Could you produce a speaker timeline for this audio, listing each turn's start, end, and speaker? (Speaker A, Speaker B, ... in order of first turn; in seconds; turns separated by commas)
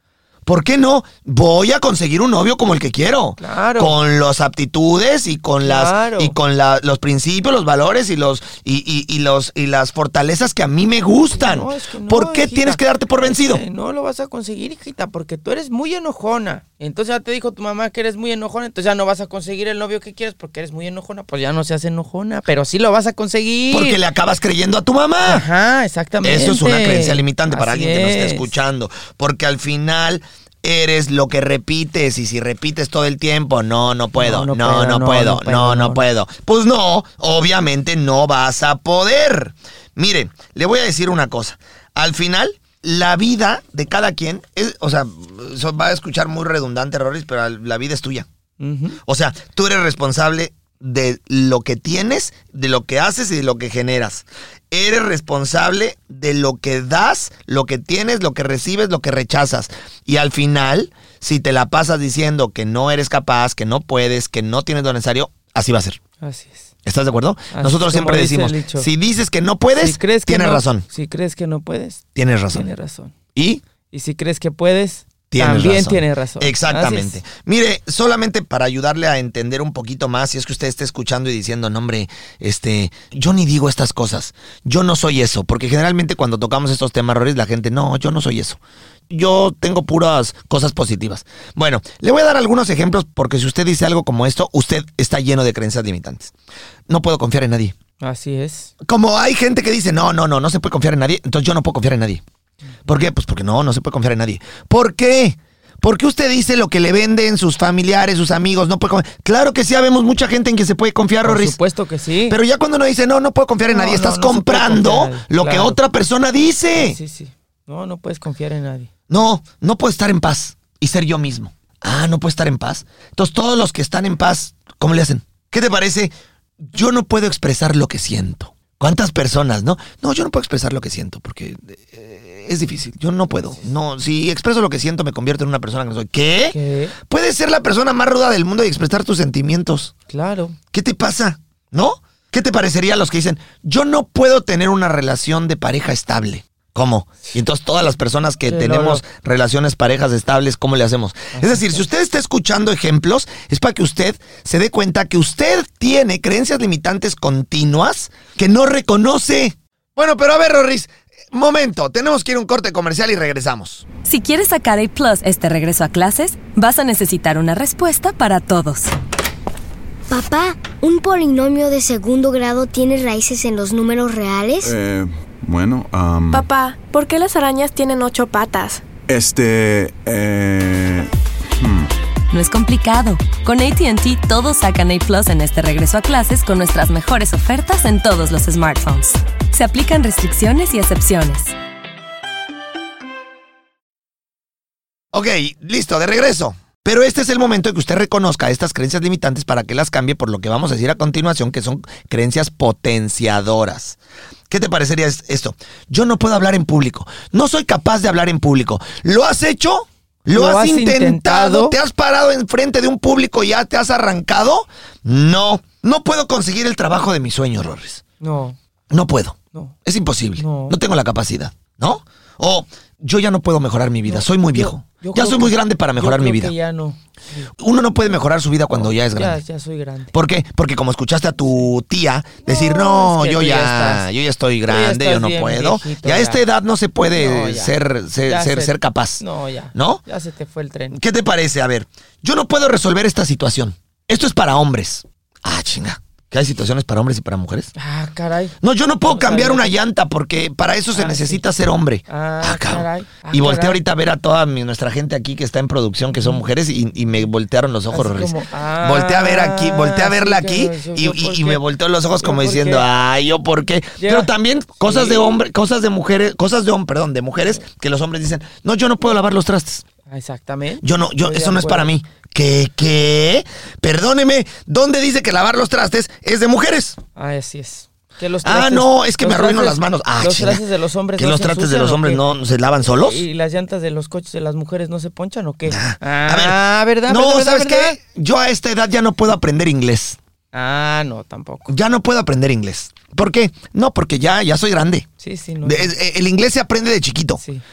Speaker A: 0.5-13.6, Speaker B: 3.4-3.9, Speaker B: 5.6-6.3, Speaker B: 11.3-24.0, Speaker A: 23.7-25.5, Speaker B: 25.2-28.5, Speaker A: 26.2-48.3, Speaker B: 34.1-36.0, Speaker B: 48.6-49.0, Speaker A: 49.0-66.0, Speaker B: 66.2-66.7, Speaker A: 66.8-70.8, Speaker B: 67.5-68.9, Speaker B: 69.8-73.1, Speaker A: 72.2-72.7, Speaker A: 73.3-73.6, Speaker B: 73.9-77.2, Speaker A: 75.3-96.3, Speaker A: 96.9-97.7, Speaker B: 98.0-98.7, Speaker A: 98.8-102.2, Speaker A: 102.9-111.6, Speaker B: 111.2-112.4, Speaker A: 112.3-117.0, Speaker B: 113.7-115.8, Speaker B: 116.8-118.9, Speaker A: 119.1-139.9, Speaker B: 136.5-136.9, Speaker B: 140.1-140.6, Speaker A: 140.7-163.8, Speaker B: 148.5-149.0, Speaker B: 151.3-151.8, Speaker C: 164.1-168.9, Speaker D: 170.1-174.7, Speaker E: 174.6-176.4, Speaker F: 176.3-178.9, Speaker E: 179.1-181.9, Speaker C: 182.3-191.5, Speaker A: 195.1-204.0, Speaker A: 204.5-218.0, Speaker B: 210.3-211.8, Speaker B: 218.2-218.6, Speaker A: 218.9-226.5, Speaker B: 220.4-220.8, Speaker B: 224.1-227.5, Speaker A: 227.6-229.4, Speaker B: 228.8-230.1, Speaker A: 230.1-239.2, Speaker B: 232.5-234.1, Speaker B: 234.7-236.4, Speaker B: 237.1-237.7, Speaker B: 238.2-241.0, Speaker A: 239.7-240.0, Speaker A: 240.9-247.7, Speaker B: 247.8-249.8, Speaker A: 248.6-269.8, Speaker B: 250.9-251.4, Speaker B: 252.1-253.8, Speaker B: 256.2-256.4, Speaker B: 257.9-261.6, Speaker B: 262.2-262.9, Speaker B: 264.0-264.3, Speaker B: 264.8-265.4, Speaker B: 270.1-271.9, Speaker A: 270.8-277.0, Speaker B: 277.2-282.3, Speaker A: 278.4-280.6, Speaker A: 281.2-283.2, Speaker B: 282.9-288.0, Speaker A: 285.7-290.2, Speaker B: 290.5-291.7, Speaker A: 291.7-295.1, Speaker B: 295.2-295.9, Speaker A: 295.6-297.4